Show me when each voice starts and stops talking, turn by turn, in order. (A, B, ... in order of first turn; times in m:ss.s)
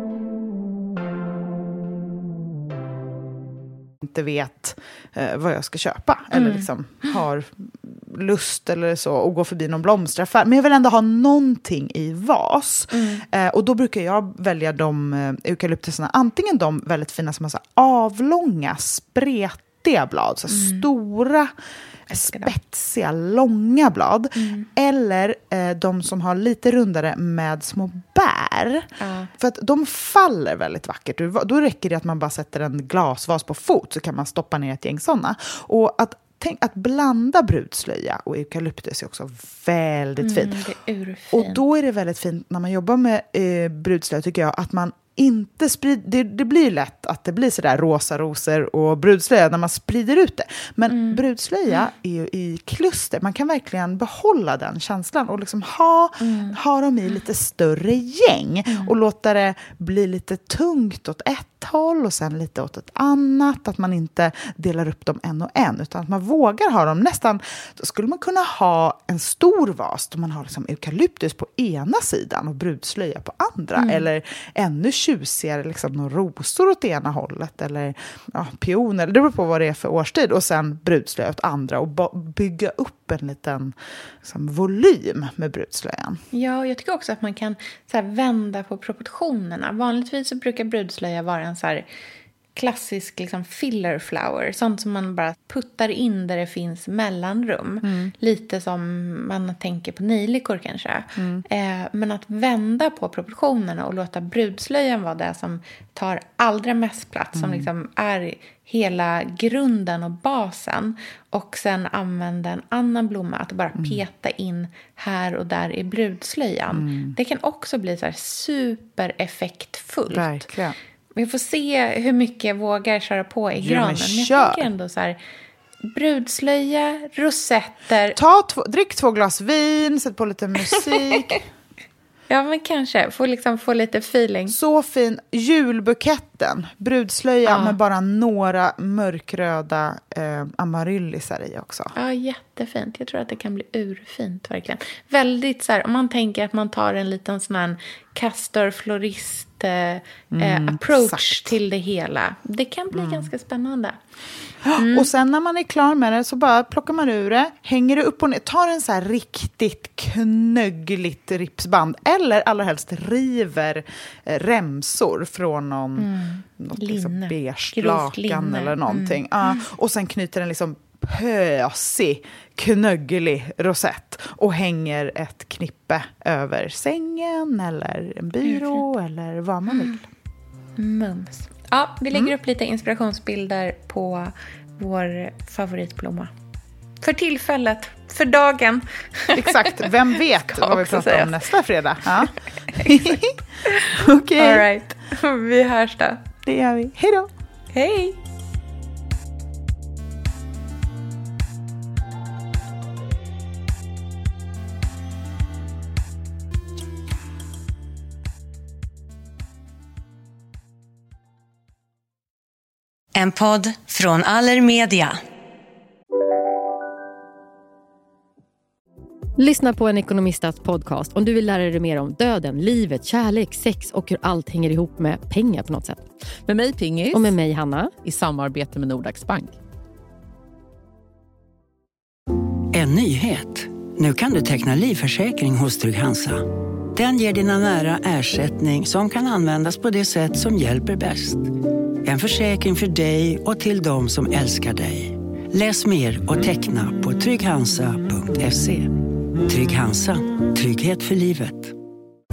0:04.0-0:21.5 A
0:06.3-0:06.7 B
0:12.9-0:13.2 B
0:20.5-0:20.9 B
0:22.1-0:28.9 A
0:22.1-0:22.5 B
0:24.4-0:24.7 B
0:29.0-0:29.3 B
0:29.4-0:40.6 A
0:40.2-0:41.6 B
0:41.3-1:26.2 A
0:50.9-0:51.2 B
0:56.2-0:56.6 B
0:58.7-0:58.9 B
1:13.8-1:14.1 B
1:26.3-1:31.9 B
1:32.6-2:00.5 B
1:37.8-1:38.1 A
1:41.2-1:41.4 A
1:47.4-1:47.7 A
1:56.7-1:57.2 A
2:00.1-2:00.8 A
2:01.2-2:05.2 B
2:03.6-2:04.7 A
2:05.8-2:08.2 B
2:08.1-2:11.4 A
2:12.3-2:14.6 B
2:14.5-2:21.9 A
2:17.5-2:17.8 B
2:22.0-2:34.0 B
2:30.3-2:31.6 A
2:32.9-2:33.3 A
2:34.7-2:46.1 A
2:34.8-2:35.1 B
2:46.0-2:49.6 B
2:46.6-3:00.0 A
2:58.4-2:58.8 B
2:59.7-3:00.0 B
3:00.8-3:06.3 B
3:07.0-3:09.9 B
3:09.3-3:13.3 A
3:10.5-3:11.4 B
3:12.7-3:16.2 B
3:13.9-3:14.6 A
3:16.4-3:17.3 A
3:17.7-3:18.2 B
3:33.2-3:35.2 C
3:39.4-3:46.0 D
3:46.4-3:47.4 E
3:47.1-3:48.0 D
3:48.0-3:49.6 E
3:52.7-3:56.4 F
3:57.0-4:01.5 F
4:02.0-4:08.9 F
4:09.5-4:11.7 F